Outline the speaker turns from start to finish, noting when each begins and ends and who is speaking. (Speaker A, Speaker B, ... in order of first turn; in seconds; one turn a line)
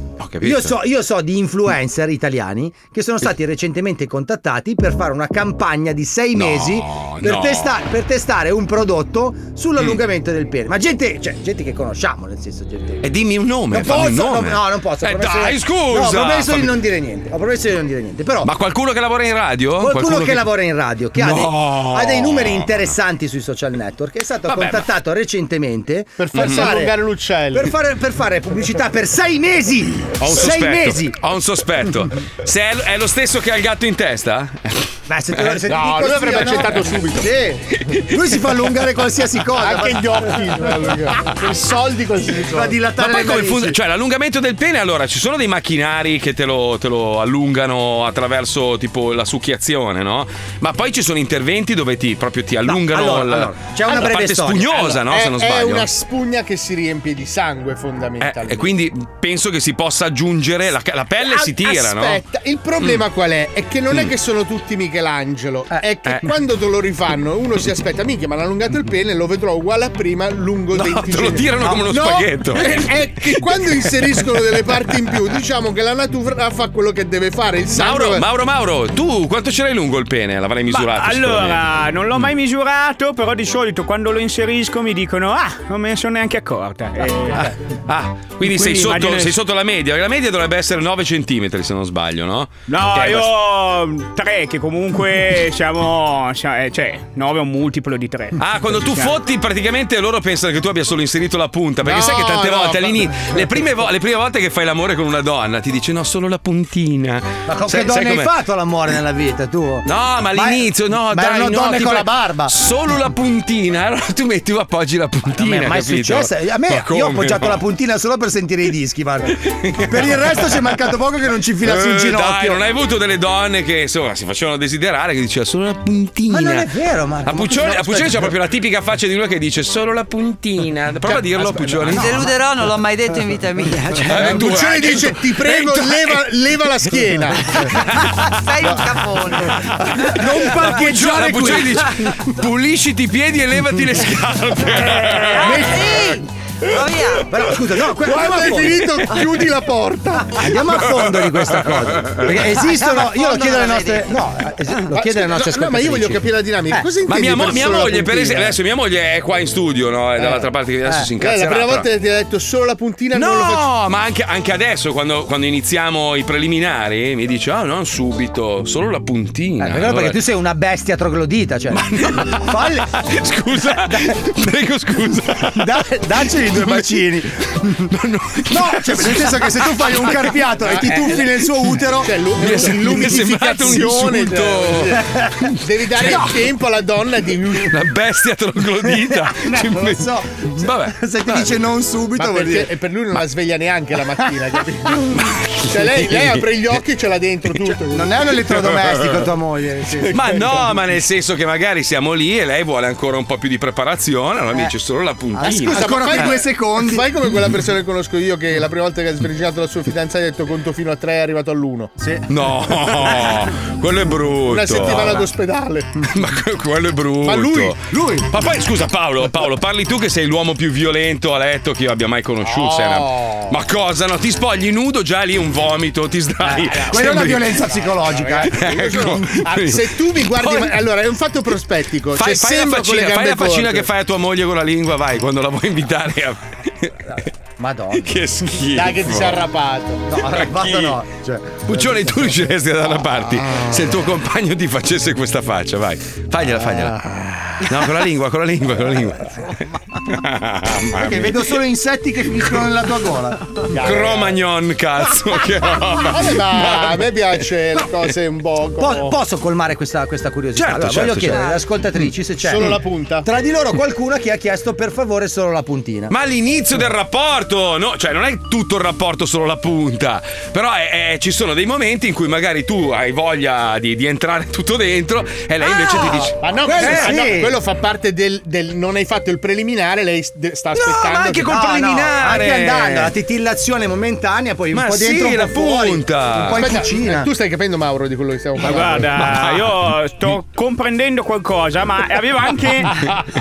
Speaker A: 0.2-0.8
Speaker B: 0.4-13.1
Speaker A: 6.3-7.8
Speaker A: 13.0-16.7
Speaker B: 13.7-18.5
Speaker A: 18.4-20.5
Speaker B: 19.8-26.9
Speaker A: 21.1-22.8
Speaker A: 24.5-24.9
Speaker C: 26.2-27.7
Speaker A: 26.3-26.7
Speaker B: 27.5-31.2
Speaker A: 30.2-35.7
Speaker B: 35.1-40.3
Speaker C: 35.7-37.5
Speaker C: 39.6-42.8
Speaker B: 42.4-43.8
Speaker A: 43.0-55.9
Speaker B: 52.6-55.0
Speaker C: 55.1-58.7
Speaker A: 58.2-62.2
Speaker C: 61.2-78.2
Speaker A: 70.7-74.2
Speaker A: 77.8-81.6
Speaker D: 80.7-87.5
Speaker A: 87.3-93.3
Speaker D: 88.4-89.3
Speaker D: 92.7-99.1
Speaker A: 98.4-108.3
Speaker C: 101.8-103.6
Speaker B: 107.5-112.5
Speaker A: 109.8-117.6
Speaker B: 115.3-122.6
Speaker A: 119.5-120.6
Speaker A: 121.6-126.7
Speaker B: 126.3-127.8
Speaker A: 127.2-132.2
Speaker C: 127.6-128.2
Speaker B: 131.4-132.2
Speaker E: 131.9-134.4
Speaker A: 134.0-136.2
Speaker C: 134.1-137.6
Speaker A: 137.7-138.1
Speaker E: 138.1-139.5
Speaker B: 139.6-141.9
Speaker A: 140.0-145.7
Speaker B: 144.9-145.9
Speaker E: 145.0-147.3
Speaker C: 145.4-146.1
Speaker B: 147.2-148.9
Speaker C: 148.0-150.3
Speaker B: 150.2-156.8
Speaker A: 150.9-152.3
Speaker E: 152.5-154.1
Speaker C: 154.9-158.6
Speaker A: 157.1-161.8
Speaker C: 160.2-160.5
Speaker C: 161.2-163.7
Speaker A: 163.1-170.2
Speaker B: 169.6-173.0
Speaker A: 171.7-177.0
Speaker B: 173.6-174.2
Speaker B: 175.5-177.9
Speaker A: 177.9-181.5
Speaker B: 178.5-183.1
Speaker C: 182.0-185.0
Speaker A: 182.4-185.0
Speaker B: 184.9-185.4
Speaker C: 185.6-187.7
Speaker A: 185.9-186.3
Speaker B: 185.9-186.3
Speaker A: 187.6-191.5
Speaker B: 188.9-192.7
Speaker C: 192.2-198.2
Speaker A: 195.4-196.3
Speaker B: 197.9-200.7
Speaker A: 198.5-198.9
Speaker A: 200.1-206.3
Speaker B: 205.3-207.1
Speaker C: 205.4-211.9
Speaker A: 212.3-215.3
Speaker C: 214.5-216.0
Speaker A: 216.1-227.8
Speaker C: 217.2-217.7
Speaker B: 217.9-218.3
Speaker C: 222.4-223.6
Speaker B: 226.4-229.2
Speaker C: 227.7-233.9
Speaker A: 228.5-230.8
Speaker A: 232.2-237.2
Speaker B: 237.6-238.2
Speaker A: 237.9-239.4
Speaker C: 238.7-240.1
Speaker B: 240.1-242.5
Speaker A: 240.3-241.0
Speaker A: 241.7-249.5
Speaker A: 250.1-251.6
Speaker B: 250.9-253.4
Speaker C: 253.7-254.3
Speaker A: 253.7-257.1
Speaker C: 256.0-259.1
Speaker B: 258.8-266.1
Speaker A: 260.6-261.5
Speaker C: 262.4-263.3
Speaker A: 266.1-277.2
Speaker B: 275.6-277.6
Speaker C: 276.4-281.6
Speaker B: 280.7-287.3
Speaker A: 281.2-283.1
Speaker A: 284.7-286.6
Speaker C: 286.6-289.2
Speaker D: 288.6-293.1
Speaker A: 289.2-290.3